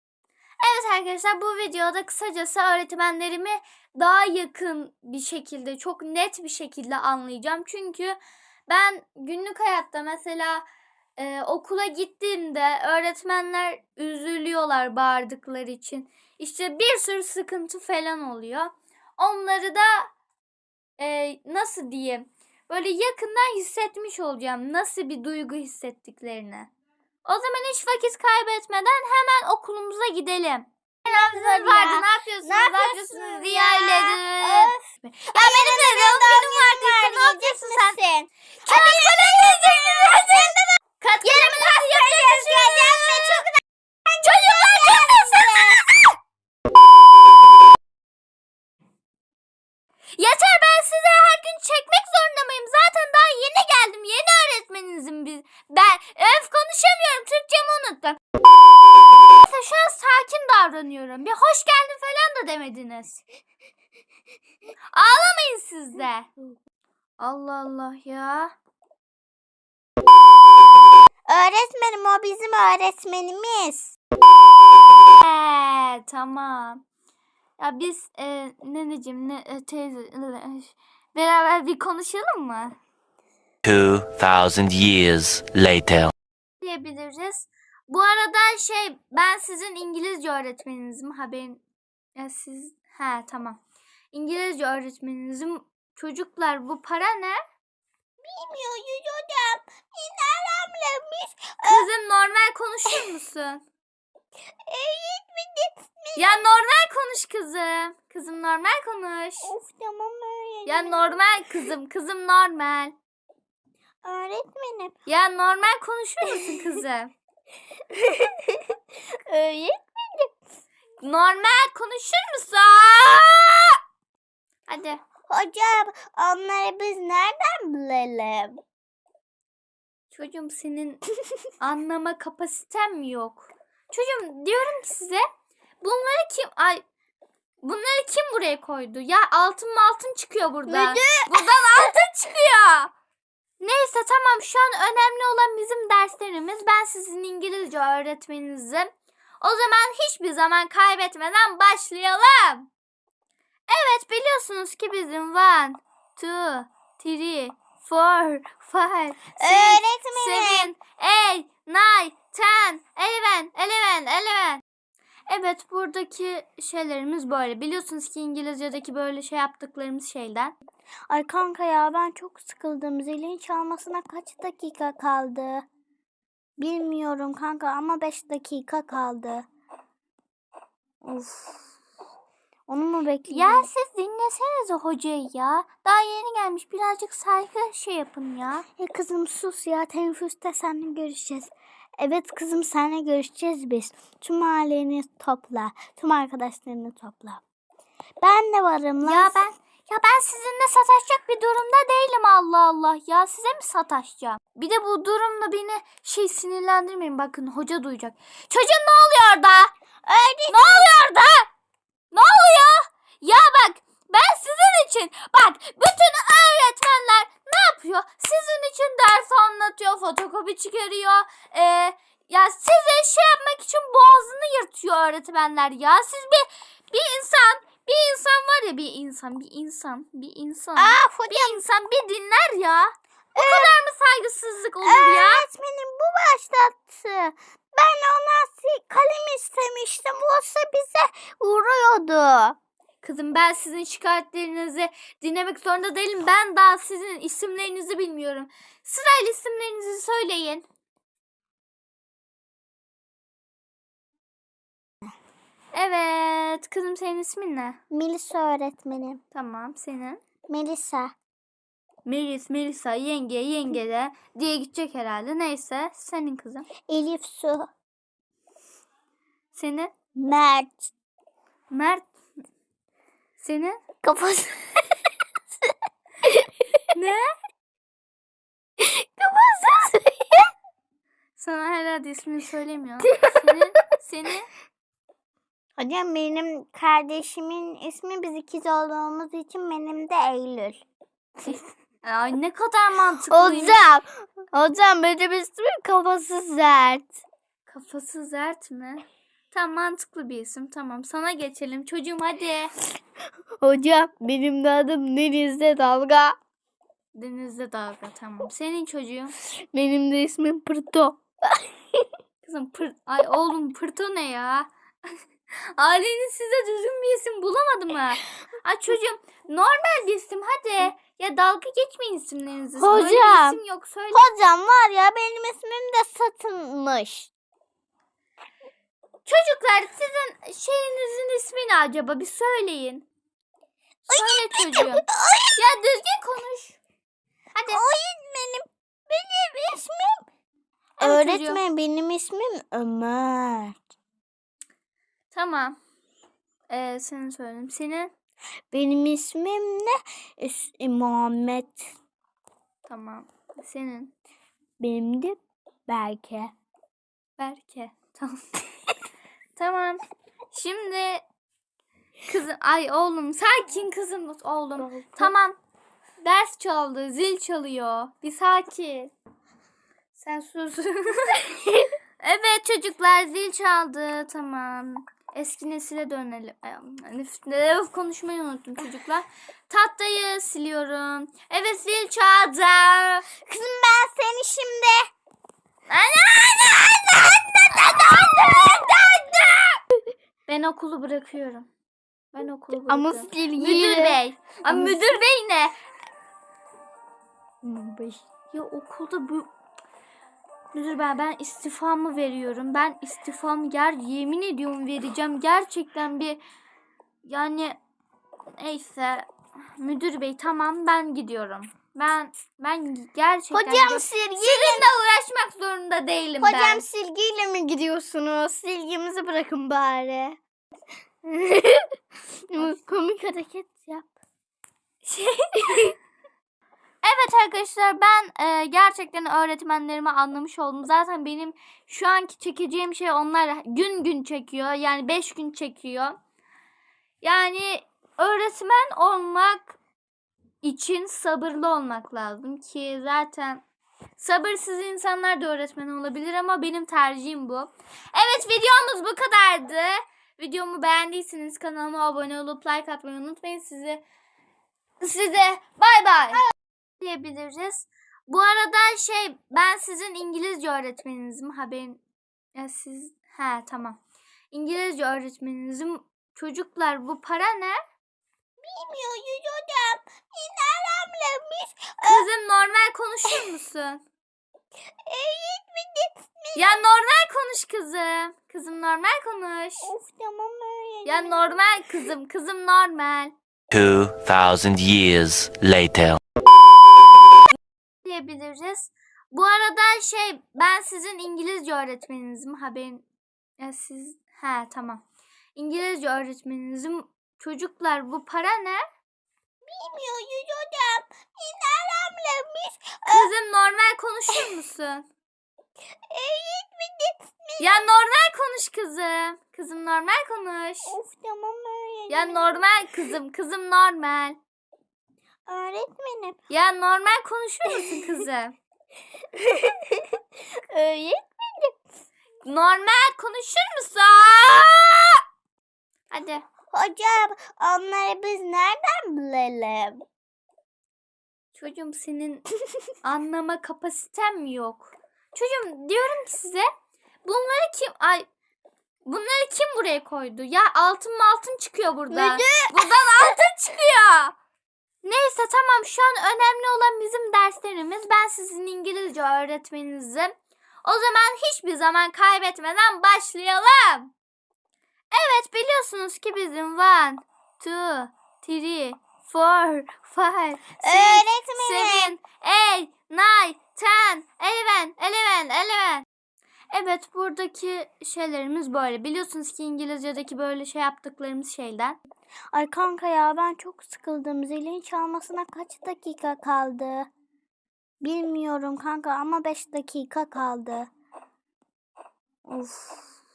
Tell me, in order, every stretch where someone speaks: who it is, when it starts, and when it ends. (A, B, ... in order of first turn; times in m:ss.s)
0:00.6-0:08.2 A
0:08.7-0:10.6 A
0:11.2-0:20.1 A
0:21.0-0:26.7 A
0:27.2-0:38.0 A
0:31.0-0:34.8 B
0:35.3-0:45.8 B
0:38.6-0:43.4 A
0:44.2-0:46.1 A
0:50.2-0:58.2 A
0:59.4-1:03.2 A
1:04.9-1:06.3 A
1:07.2-1:08.5 A
1:11.3-1:13.9 B
1:15.2-1:16.8 A
1:17.6-1:22.8 A
1:23.6-1:26.1 C
1:26.6-1:31.6 A
1:32.2-1:33.6 A
1:34.1-1:37.4 A
1:38.2-1:41.9 B
1:41.6-1:43.6 A
1:44.7-1:46.4 B
1:46.2-1:49.5 A
1:49.4-1:51.2 B
1:50.6-1:52.9 A
1:54.0-1:54.9 B
1:55.0-1:57.1 A
1:57.9-1:58.7 B
1:59.2-2:00.3 B
2:01.0-2:03.8 A
2:04.7-2:05.0 A
2:05.3-2:08.6 B
2:10.1-2:11.0 A
2:11.6-2:15.2 A
2:15.8-2:16.8 A
2:17.6-2:22.9 A
2:20.7-2:21.9 B
2:23.6-2:28.9 A
2:29.4-2:32.7 A
2:33.7-2:44.6 A
2:39.4-2:40.7 B
2:45.3-2:50.6 A
2:51.1-2:55.6 B
2:56.6-2:59.5 B
3:01.0-3:01.7 A
3:02.7-3:03.7 B
3:03.3-3:08.6 A
3:08.8-3:17.4 B
3:18.2-3:19.4 B
3:19.0-3:29.7 A
3:30.0-3:30.9 B
3:30.5-3:31.5 A
3:32.1-3:55.4 A
3:50.8-3:51.6 B
3:53.4-3:53.7 B
3:54.8-4:02.6 B
4:03.0-4:10.6 A
4:15.7-4:17.8 A
4:17.9-4:19.2 B
4:19.3-4:20.2 A
4:20.5-4:21.1 B
4:22.0-4:26.7 A
4:26.9-4:27.7 B
4:29.5-4:29.9 A
4:30.2-4:30.9 B
4:31.7-4:32.1 A
4:33.4-4:33.8 A
4:34.0-4:34.9 B
4:36.9-4:37.2 A
4:38.8-4:40.5 B
4:39.3-4:39.9 A
4:41.4-4:44.5 A
4:45.8-4:50.8 B
4:52.0-4:53.8 A
4:53.3-4:57.2 B
4:57.7-5:02.7 A
5:03.6-5:06.4 B
5:07.1-5:09.3 A
5:09.7-5:12.0 B
5:12.4-5:14.7 A
5:15.8-5:24.2 A
5:22.8-5:23.6 B
5:24.1-5:27.3 B
5:29.2-5:33.0 A
5:34.1-5:35.6 B
5:34.1-5:35.0 A
5:35.6-5:36.8 A
5:37.5-5:37.8 A
5:37.7-5:40.2 B
5:41.0-5:41.6 A
5:41.0-5:43.9 B
5:45.3-5:45.8 A
5:46.7-5:48.1 A
5:48.7-5:51.9 B
5:52.9-5:54.1 A
5:54.8-5:55.4 B
5:55.9-5:56.5 B
5:57.4-5:58.4 A
5:59.6-6:00.0 A
6:00.5-6:01.2 A
6:02.2-6:05.6 A
6:04.9-6:05.3 B
6:06.2-6:09.1 A
6:10.2-6:11.5 A
6:12.2-6:23.2 A
6:23.4-6:25.1 B
6:25.9-6:26.8 A
6:26.5-6:29.6 B
6:30.5-6:31.7 A
6:32.3-6:35.7 A
6:32.9-6:35.0 B
6:37.6-6:38.2 B
6:38.5-6:39.5 A
6:40.7-6:46.4 A
6:47.2-6:47.8 A
6:48.6-6:56.8 A
6:53.5-6:54.9 B
6:56.4-7:00.4 B
7:01.2-7:01.8 B
7:02.5-7:04.1 B
7:02.6-7:02.8 A
7:05.0-7:05.9 A
7:07.0-7:16.2 A
7:17.2-7:19.8 A
7:20.6-7:23.6 A
7:24.2-7:34.0 A
7:35.0-7:36.4 A
7:37.0-7:42.0 A
7:42.5-7:44.0 A
7:44.5-7:47.8 A
7:48.6-7:52.2 B
7:52.0-7:54.0 A
7:55.0-7:56.8 B
7:56.5-7:59.9 A
7:59.9-8:01.6 B
8:01.0-8:03.3 A
8:03.7-8:06.2 C
8:08.0-8:13.0 A
8:13.6-8:15.0 A
8:15.6-8:18.8 A
8:19.6-8:23.3 B
8:23.1-8:25.0 A
8:26.1-8:27.8 B
8:27.6-8:30.9 A
8:30.9-8:32.6 B
8:32.1-8:34.4 A
8:35.5-8:36.4 B
8:36.5-8:38.5 A
8:39.4-8:40.2 B
8:40.7-8:41.7 B
8:42.4-8:45.2 A
8:46.1-8:46.4 A
8:46.7-8:50.0 B
8:51.5-8:52.5 A
8:53.0-8:56.7 A
8:57.2-8:58.2 A
8:59.0-9:04.3 A
9:02.1-9:03.4 B
9:05.0-9:14.1 A
9:15.1-9:26.0 A
9:20.8-9:22.1 B
9:26.7-9:32.0 A
9:32.5-9:37.1 B
9:38.0-9:40.9 B
9:42.5-9:43.1 A